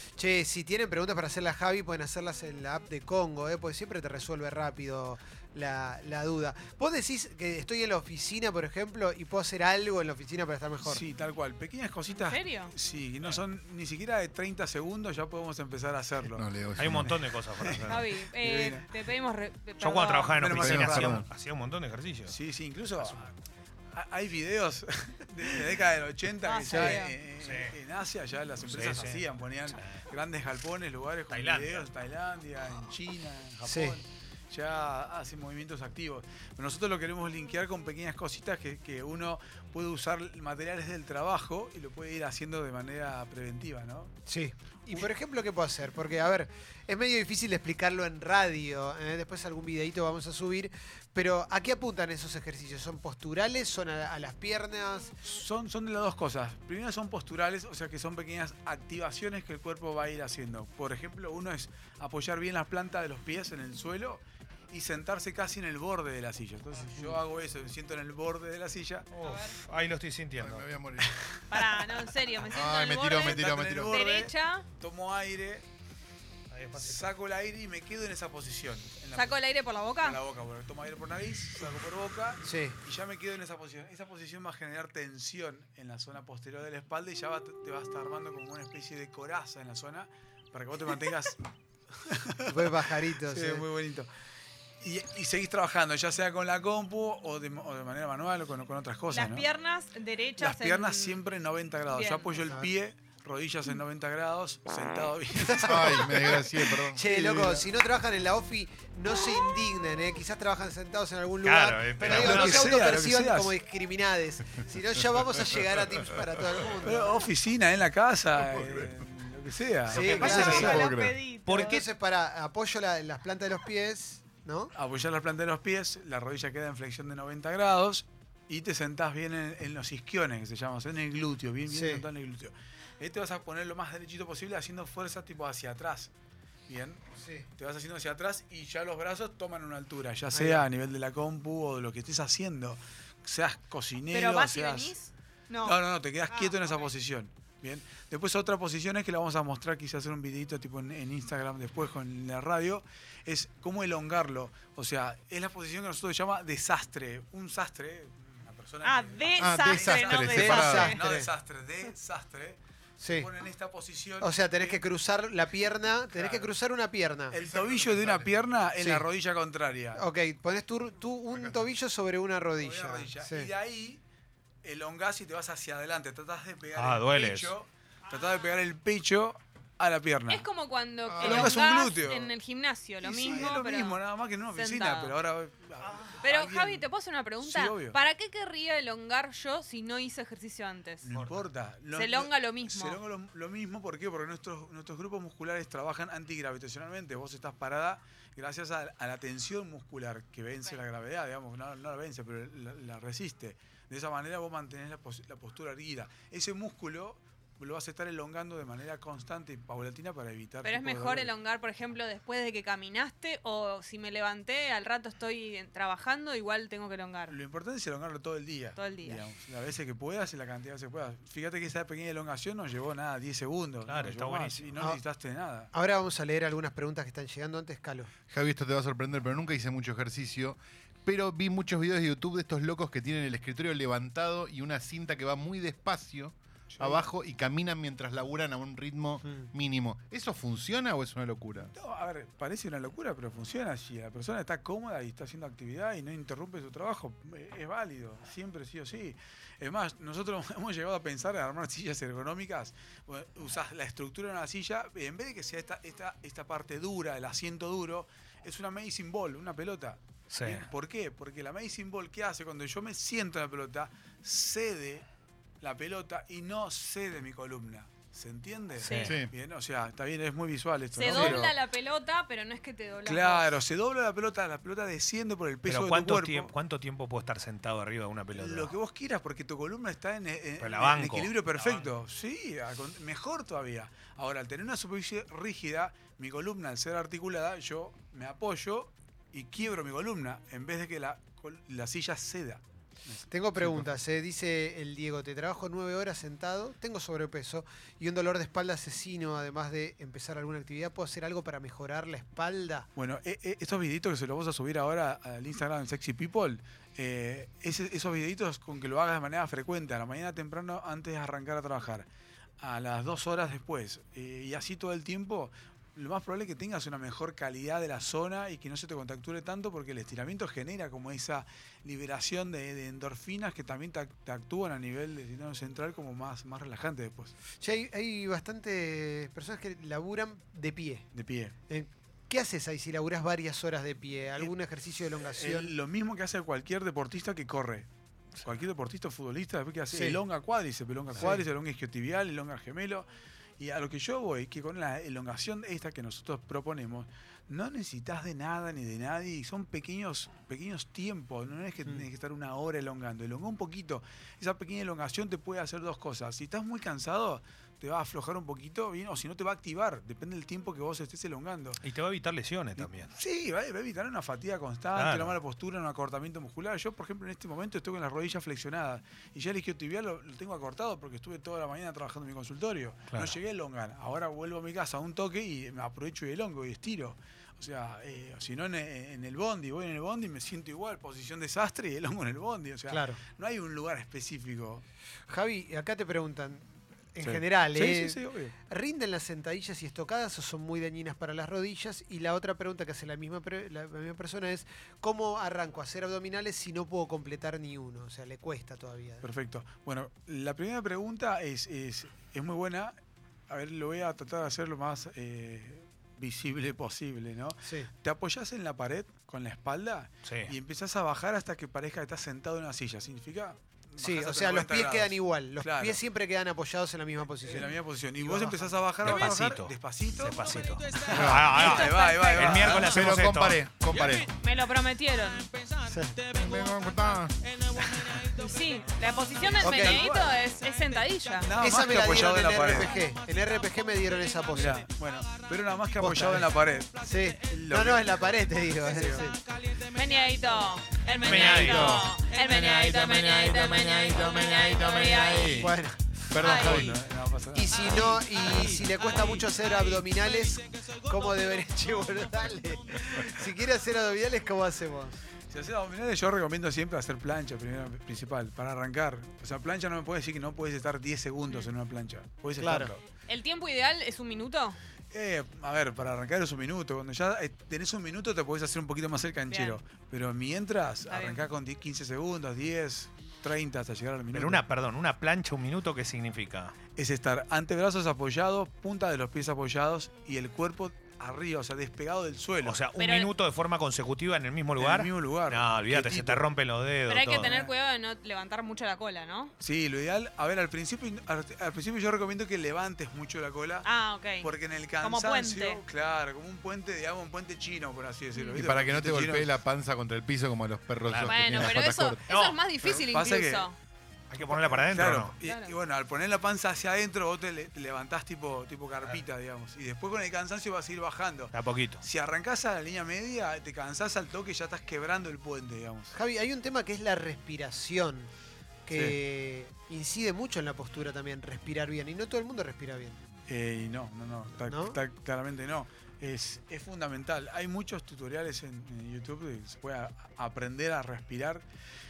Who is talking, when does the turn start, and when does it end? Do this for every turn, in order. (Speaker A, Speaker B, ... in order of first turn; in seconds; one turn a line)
Speaker A: 0.2-11.0
Speaker B: 10.9-16.5
Speaker C: 12.1-12.7
Speaker D: 16.4-17.2
Speaker E: 16.8-18.1
Speaker B: 17.6-18.9
Speaker C: 17.9-20.4
Speaker E: 19.8-22.4
Speaker B: 20.4-21.2
Speaker D: 20.5-21.2
Speaker B: 22.3-23.3
Speaker B: 23.9-44.1
Speaker C: 26.5-27.1
Speaker A: 26.7-27.0
Speaker E: 27.4-27.7
Speaker E: 28.7-30.0
Speaker E: 31.3-31.9
Speaker A: 33.6-34.0
Speaker A: 44.3-55.1
Speaker B: 55.2-69.1
Speaker E: 69.1-70.7
Speaker D: 70.4-71.1
Speaker B: 71.0-72.1
Speaker C: 71.5-73.4
Speaker D: 72.4-74.0
Speaker B: 73.2-75.7
Speaker C: 73.9-74.7
Speaker E: 76.5-77.0
Speaker B: 76.8-91.4
Speaker C: 79.2-80.2
Speaker A: 82.4-82.8
Speaker B: 92.1-94.1
Speaker A: 92.5-93.7
Speaker B: 94.8-99.5
Speaker C: 99.1-101.2
Speaker B: 100.4-106.4
Speaker C: 101.9-102.4
Speaker A: 102.4-102.7
Speaker A: 105.3-117.2
Speaker D: 105.6-107.0
Speaker B: 107.1-107.7
Speaker E: 111.4-112.6
Speaker D: 112.0-112.3
Speaker B: 112.0-113.5
Speaker B: 116.8-120.8
Speaker D: 118.5-118.9
Speaker A: 119.9-120.9
Speaker E: 119.9-120.9
Speaker D: 120.3-121.2
Speaker C: 120.3-121.7
Speaker E: 121.4-121.8
Speaker A: 121.5-124.7
Speaker B: 124.8-136.1
Speaker A: 131.7-132.1
Speaker B: 136.7-137.0
Speaker A: 137.1-137.5
Speaker B: 137.6-145.0
Speaker A: 140.3-140.7
Speaker C: 144.1-144.9
Speaker B: 145.6-164.8
Speaker C: 158.8-160.9
Speaker D: 159.4-160.9
Speaker A: 160.3-161.3
Speaker A: 163.0-163.3
Speaker A: 164.2-167.4
Speaker B: 166.1-166.5
Speaker B: 167.3-170.0
Speaker D: 167.4-168.3
Speaker A: 168.8-169.1
Speaker A: 169.9-173.5
Speaker D: 171.3-171.7
Speaker B: 172.6-174.0
Speaker B: 174.6-180.5
Speaker E: 176.8-177.5
Speaker C: 180.3-184.0
Speaker D: 181.1-181.7
Speaker B: 181.2-182.4
Speaker B: 183.0-186.9
Speaker C: 184.5-185.2
Speaker C: 186.2-191.1
Speaker B: 187.4-188.0
Speaker B: 191.0-211.3
Speaker E: 191.1-191.4
Speaker C: 191.9-193.0
Speaker C: 210.7-217.4
Speaker B: 217.3-225.7
Speaker C: 218.8-219.2
Speaker E: 223.8-224.7
Speaker A: 225.7-228.1
Speaker D: 228.3-241.7
Speaker B: 236.7-237.1
Speaker A: 239.2-239.5
Speaker B: 241.7-265.1
Speaker E: 260.3-260.7
Speaker B: 265.6-271.5
Speaker C: 268.8-269.1
Speaker D: 269.0-269.3
Speaker C: 270.9-273.6
Speaker A: 271.1-271.4
Speaker B: 273.1-276.5
Speaker E: 275.7-278.8
Speaker B: 278.4-293.9
Speaker E: 280.6-281.9
Speaker A: 293.3-302.9
Speaker B: 303.0-312.1
Speaker B: 312.6-327.3
Speaker A: 327.6-331.1
Speaker B: 331.1-331.6
Speaker A: 331.7-335.7
Speaker B: 335.3-337.9
Speaker B: 338.4-343.1
Speaker A: 339.9-340.2
Speaker A: 341.2-341.4
Speaker B: 343.6-361.8
Speaker E: 361.8-363.1
Speaker B: 362.8-384.9
Speaker E: 364.9-365.4
Speaker E: 373.1-373.4
Speaker A: 382.9-383.2
Speaker A: 385.3-399.2
Speaker B: 387.2-388.6
Speaker B: 399.2-403.0
Speaker B: 403.5-416.0
Speaker A: 407.6-407.9
Speaker E: 410.2-410.5
Speaker A: 414.0-418.8
Speaker B: 417.5-420.4
Speaker E: 419.0-423.6
Speaker B: 421.0-423.1
Speaker D: 421.1-421.8
Speaker C: 421.5-422.8
Speaker D: 422.7-424.3
Speaker C: 423.9-425.5
Speaker A: 425.8-426.2
Speaker D: 426.3-427.4
Speaker B: 427.8-428.4
Speaker C: 428.4-431.5
Speaker B: 429.4-430.4
Speaker A: 429.6-430.1
Speaker B: 431.4-433.0
Speaker A: 431.6-434.8
Speaker B: 434.5-438.2
Speaker A: 436.0-436.5
Speaker A: 437.0-439.4
Speaker B: 438.9-439.3
Speaker C: 439.9-445.7
Speaker E: 441.2-442.0
Speaker D: 441.2-445.7
Speaker A: 445.6-447.0
Speaker D: 446.3-447.0
Speaker B: 446.4-449.0
Speaker C: 446.4-446.8
Speaker A: 447.5-455.2
Speaker B: 455.5-463.0
Speaker A: 462.5-462.9
Speaker C: 463.3-464.8
Speaker B: 465.1-474.6
Speaker C: 469.5-469.8
Speaker C: 471.1-471.4
Speaker E: 474.3-476.8
Speaker B: 477.0-482.8
Speaker E: 482.6-487.6
Speaker C: 483.0-483.3
Speaker B: 484.8-486.4
Speaker C: 487.1-489.5
Speaker B: 487.4-487.7
Speaker B: 489.6-499.6
Speaker C: 493.9-494.5
Speaker C: 495.0-495.8
Speaker C: 498.4-498.6
Speaker D: 498.5-502.2
Speaker E: 501.1-502.7
Speaker C: 501.2-503.7
Speaker B: 502.9-503.7
Speaker E: 504.3-505.4
Speaker B: 504.4-516.1
Speaker C: 505.4-505.7
Speaker E: 511.5-512.0
Speaker A: 516.1-518.3
Speaker A: 518.9-523.2
Speaker B: 523.5-531.6
Speaker A: 524.7-525.0